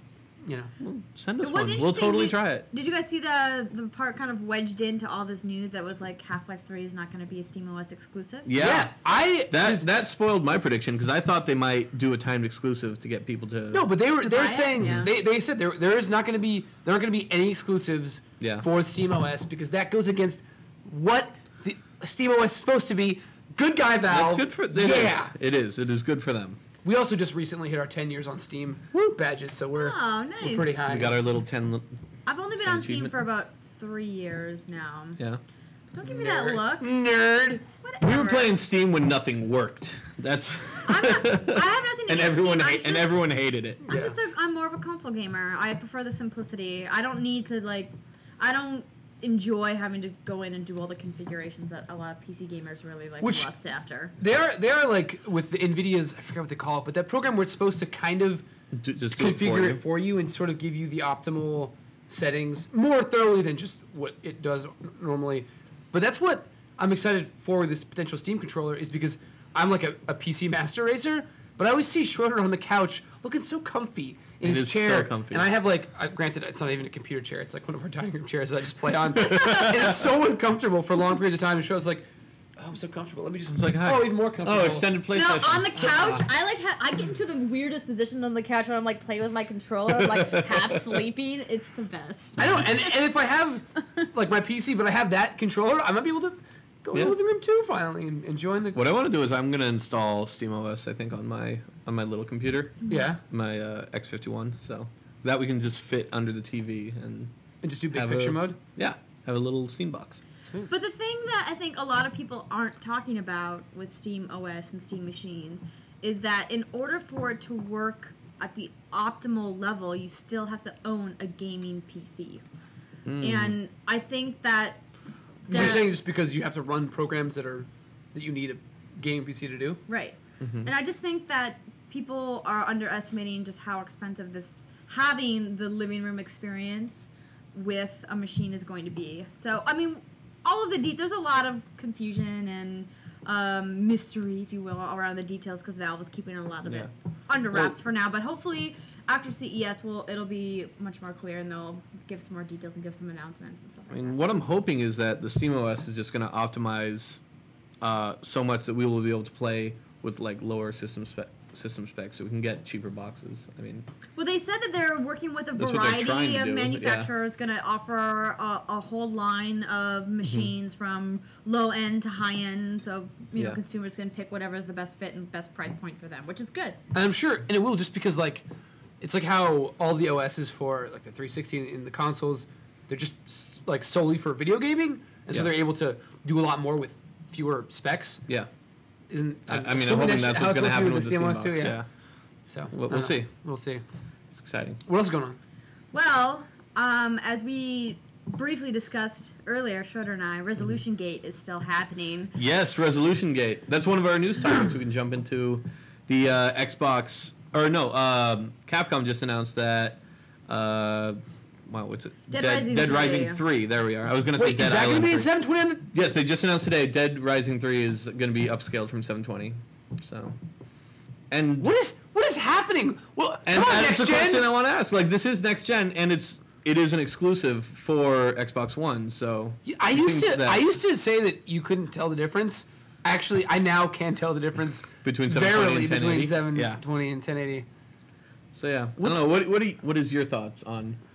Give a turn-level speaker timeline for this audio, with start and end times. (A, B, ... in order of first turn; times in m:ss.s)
0:00.4-0:00.7 A
0:00.8-0:02.7 B
0:01.4-0:08.5 C
0:08.5-0:08.9 B
0:08.6-0:09.9 A
0:09.5-0:13.9 B
0:13.7-0:25.3 A
0:14.2-0:15.1 C
0:14.8-0:15.1 B
0:18.4-0:18.7 B
0:24.1-0:26.6 B
0:26.8-0:31.2 A
0:29.8-0:30.7 C
0:30.8-0:31.9 B
0:32.3-0:35.2 C
0:32.6-0:33.1 B
0:35.9-0:36.9 C
0:36.1-0:36.6 B
0:36.6-0:37.6 A
0:37.8-0:38.5 C
0:38.0-0:43.9 B
0:40.8-0:43.2 C
0:43.8-0:54.1 C
0:43.9-0:44.2 A
0:53.2-0:53.5 A
0:54.2-0:58.4 A
0:58.7-0:59.8 B
0:59.1-1:22.1 A
1:14.4-1:15.5 B
1:19.2-1:20.1 B
1:19.2-1:19.8 C
1:22.6-1:24.9 A
1:23.5-1:26.3 B
1:25.1-1:32.6 C
1:30.0-1:31.0 B
1:32.4-1:32.7 B
1:32.4-1:38.8 A
1:38.7-1:47.3 B
1:42.9-1:43.1 C
1:42.9-1:43.2 A
1:47.6-1:48.6 A
1:47.9-1:50.2 B
1:50.7-2:02.4 C
2:03.0-2:03.6 B
2:03.2-2:04.8 C
2:05.5-2:05.9 C
2:05.5-2:09.8 A
2:09.9-2:34.4 C
2:10.4-2:10.7 B
2:27.5-2:27.8 B
2:33.9-2:37.2 B
2:37.8-2:43.9 B
2:44.2-2:56.8 C
2:45.6-2:47.1 B
2:50.2-2:50.5 B
2:56.9-2:58.5 A
2:59.0-3:08.2 A
3:09.1-3:11.8 A
3:09.5-3:11.9 B
3:12.5-3:13.8 A
3:12.7-3:13.3 B
3:14.3-3:14.8 B
3:14.9-3:15.4 A
3:15.9-3:22.4 C
3:22.4-3:35.3 B
3:32.3-3:33.4 C
3:34.4-3:35.9 A
3:35.9-3:40.4 B
3:41.3-3:41.7 B
3:41.6-3:44.5 A
3:43.5-3:50.6 B
3:49.7-3:57.7 A
3:55.0-3:56.8 B
3:58.5-4:01.0 B
3:59.0-3:59.3 A